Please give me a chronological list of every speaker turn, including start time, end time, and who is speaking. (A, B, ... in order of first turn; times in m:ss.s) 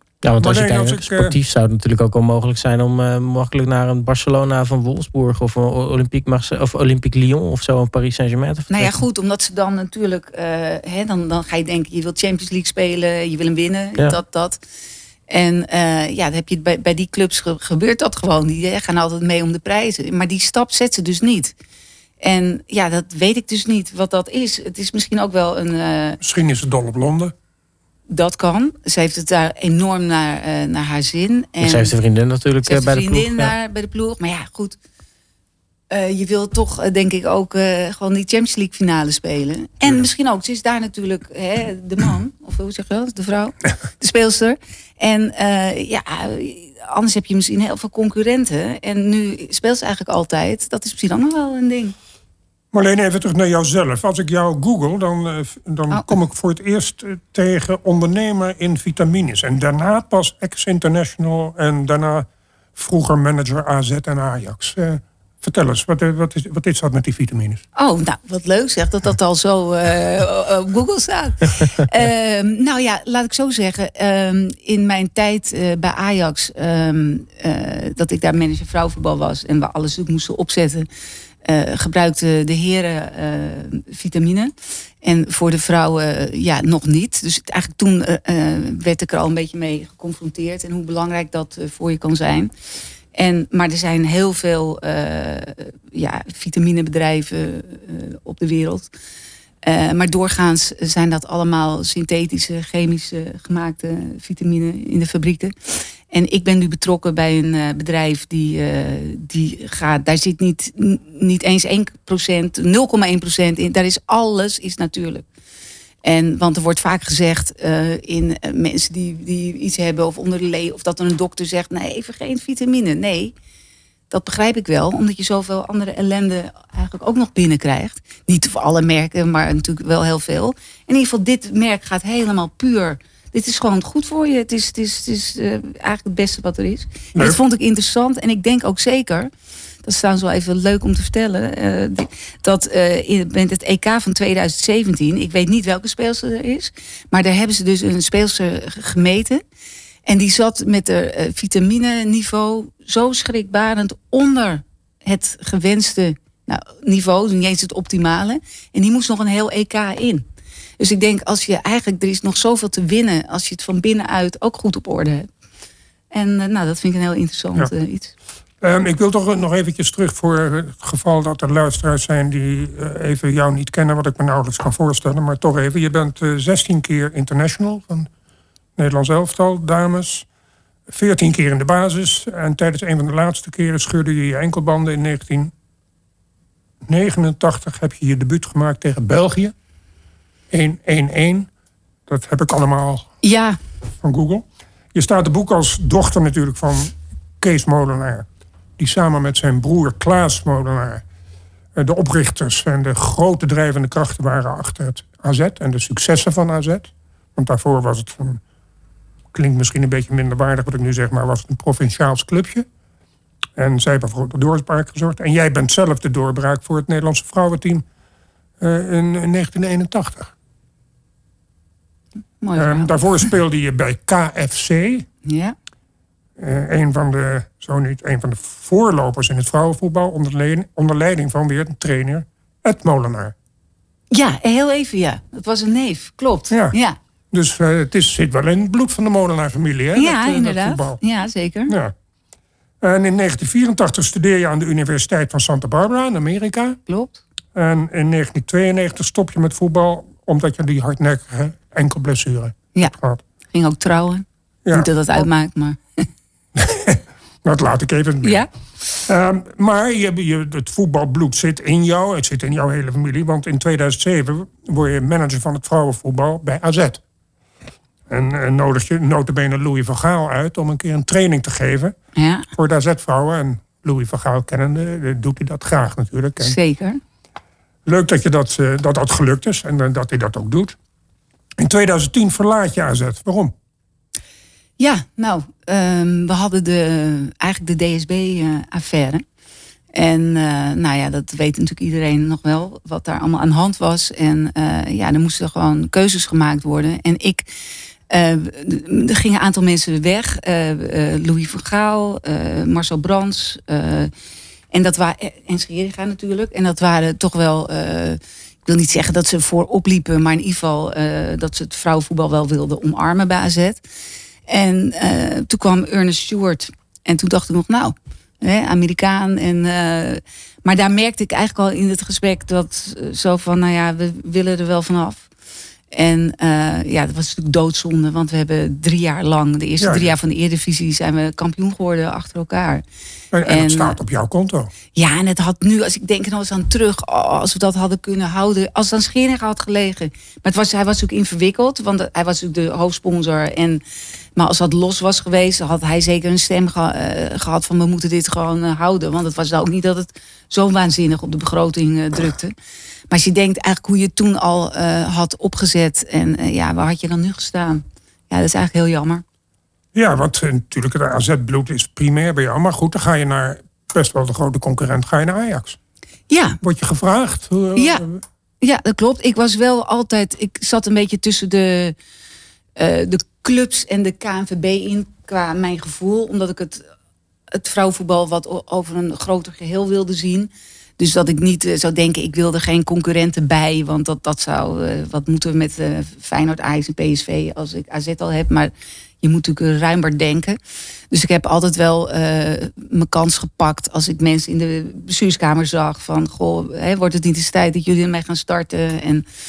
0:00.2-0:09.0 A
0:00.4-0:01.4 B
0:08.7-0:14.6 C
0:15.3-0:21.6 C
0:22.2-0:26.2 C
0:26.2-0:27.3 B
0:28.1-0:32.0 C
0:31.6-0:33.5 A
0:32.6-0:34.8 C
0:35.9-0:52.0 C
0:52.7-1:07.6 B
1:07.8-1:20.9 C
1:21.4-1:32.5 C
1:33.1-1:38.9 C
1:39.6-1:45.6 C
1:46.1-1:55.2 C
1:56.0-2:03.3 C
2:04.1-2:19.3 C
2:17.2-2:17.4 B
2:19.8-2:29.4 C
2:30.0-2:40.2 C
2:40.8-2:45.3 C
2:46.1-2:48.1 C
2:48.6-2:58.1 B
2:58.8-3:00.3 B
3:00.9-3:05.5 B
3:06.9-3:09.5 B
3:10.5-3:11.5 B
3:12.1-3:13.1 B
3:13.2-3:13.6 C
3:14.0-3:18.3 B
3:18.8-3:21.0 B
3:21.8-3:28.4 B
3:29.3-3:32.7 B
3:33.6-3:37.8 B
3:38.6-3:40.3 B
3:42.4-3:43.0 C
3:42.6-3:45.1 B
3:45.2-3:45.6 C
3:46.4-3:53.3 B
3:54.1-3:57.0 C
3:56.5-3:56.8 B
3:57.3-4:01.0 B
4:00.0-4:01.7 C
4:01.7-4:01.9 B
4:02.8-4:06.8 B
4:06.9-4:07.2 C
4:07.6-4:13.2 B
4:13.5-4:16.0 C
4:16.6-4:18.5 B
4:18.2-4:18.5 C
4:19.0-4:27.0 B
4:28.1-4:32.0 B
4:32.2-4:32.5 C
4:32.5-4:36.6 B
4:36.4-4:37.0 C
4:37.8-4:40.8 B
4:41.6-4:43.5 B
4:44.8-4:49.2 C
4:49.9-4:57.5 C
4:58.1-5:04.1 C
5:04.7-5:13.8 C
5:14.5-5:25.3 C
5:25.9-5:32.8 C
5:29.8-5:30.2 B
5:33.3-5:34.7 B
5:33.4-5:34.0 C
5:35.0-5:43.8 C
5:44.4-5:52.5 C
5:53.1-5:59.2 C
5:59.9-6:05.8 B
6:06.3-6:06.6 C
6:06.6-6:08.2 B
6:07.8-6:08.0 C
6:08.6-6:12.0 C
6:12.8-6:16.9 C
6:17.5-6:30.6 C
6:31.1-6:39.2 C